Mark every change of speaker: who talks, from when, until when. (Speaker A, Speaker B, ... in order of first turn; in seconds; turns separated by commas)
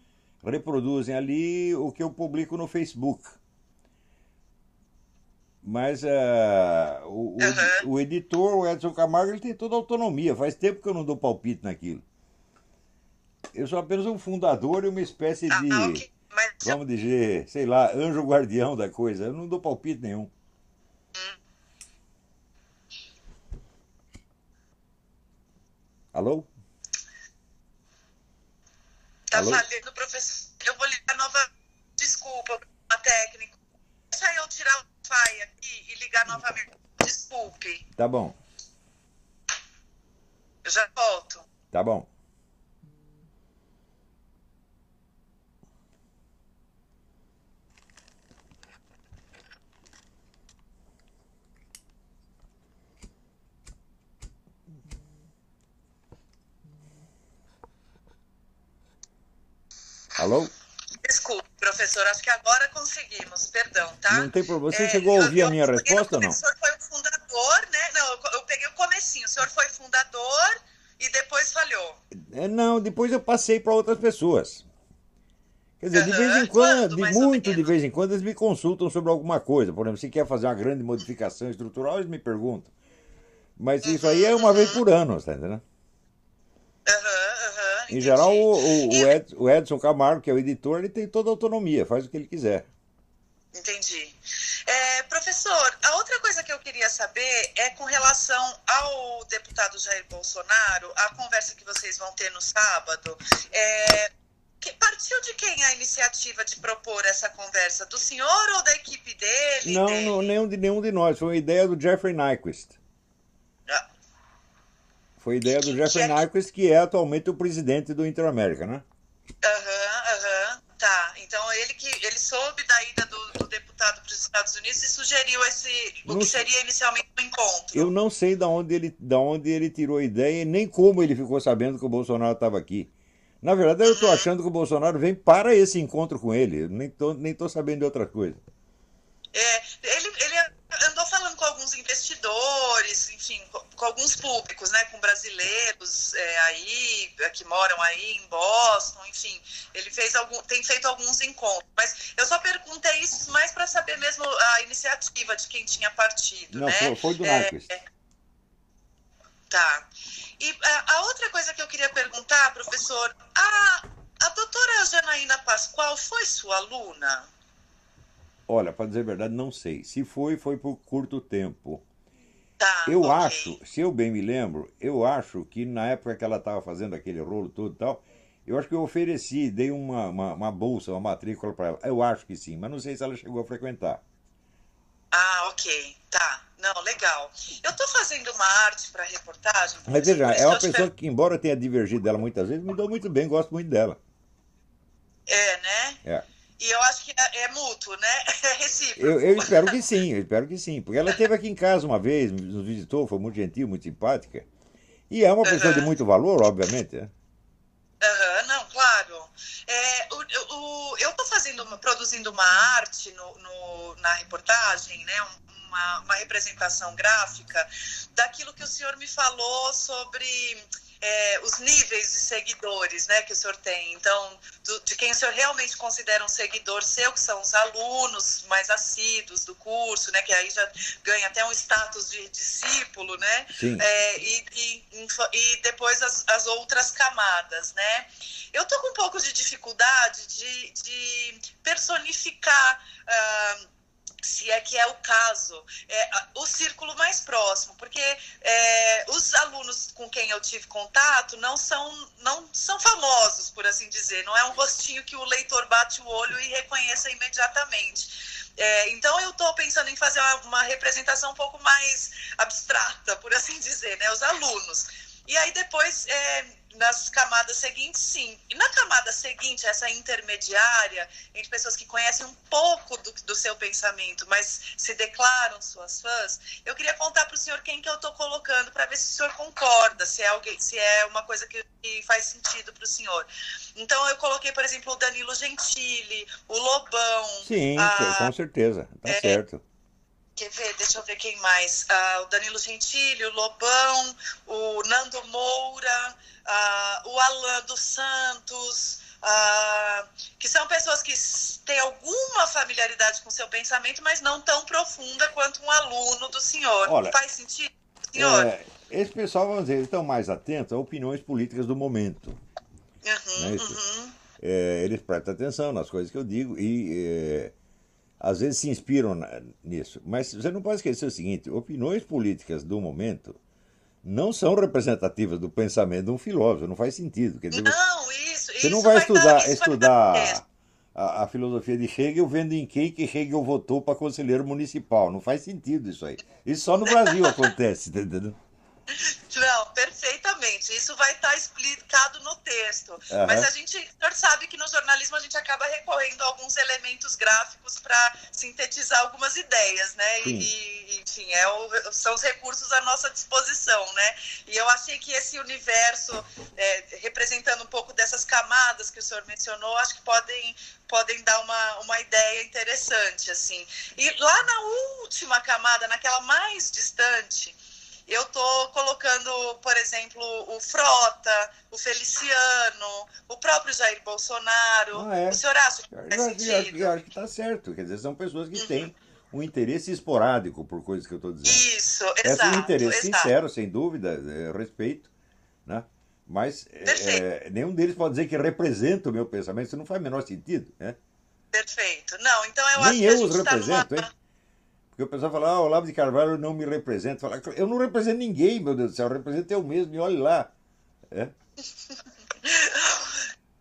Speaker A: 0.4-3.4, Speaker A: 5.6-12.0, Speaker B: 7.4-7.8, Speaker A: 13.5-16.1, Speaker B: 15.5-16.8, Speaker A: 16.6-20.3, Speaker A: 26.1-26.5, Speaker B: 29.3-33.5, Speaker A: 29.3-29.7, Speaker B: 34.1-37.9, Speaker A: 37.9-38.4, Speaker B: 40.6-41.5, Speaker A: 41.7-42.1, Speaker A: 60.2-60.5, Speaker B: 61.0-72.0, Speaker A: 64.1-66.4, Speaker A: 72.1-74.7, Speaker A: 75.8-82.7, Speaker B: 75.9-77.7, Speaker A: 83.6-85.6, Speaker B: 83.8-84.8, Speaker B: 86.8-89.2, Speaker A: 87.9-92.7, Speaker B: 93.5-110.3, Speaker A: 109.6-112.8, Speaker A: 115.2-118.8, Speaker B: 115.5-116.2, Speaker B: 119.4-127.9, Speaker A: 126.0-126.5, Speaker A: 127.7-132.9, Speaker A: 133.4-138.4, Speaker B: 133.8-134.3, Speaker B: 139.3-157.8, Speaker A: 156.5-157.8, Speaker B: 159.5-167.3, Speaker A: 168.5-171.8, Speaker B: 172.6-173.6, Speaker A: 172.9-184.0, Speaker B: 185.1-190.9, Speaker A: 189.9-194.0, Speaker B: 195.3-196.0, Speaker B: 196.6-199.8, Speaker A: 199.0-204.5, Speaker A: 205.1-207.1, Speaker B: 205.4-205.9, Speaker B: 208.0-243.7, Speaker A: 233.5-233.9, Speaker B: 244.2-288.3, Speaker A: 287.4-289.6, Speaker B: 289.1-289.4, Speaker B: 290.4-308.5, Speaker A: 306.8-307.2, Speaker A: 308.1-312.4, Speaker B: 313.0-314.2, Speaker A: 313.4-317.5, Speaker A: 318.2-323.4, Speaker A: 324.0-327.8, Speaker B: 327.5-330.4, Speaker A: 328.6-330.4, Speaker A: 330.9-338.4, Speaker B: 336.9-337.5, Speaker B: 338.9-377.0, Speaker A: 343.1-343.5, Speaker A: 350.2-350.5, Speaker A: 374.9-381.7, Speaker B: 378.6-378.9, Speaker B: 381.4-383.3, Speaker A: 382.2-385.1, Speaker A: 385.7-391.0, Speaker B: 386.9-387.2, Speaker B: 391.5-394.1, Speaker A: 392.8-394.1, Speaker A: 394.9-400.5, Speaker B: 401.9-403.3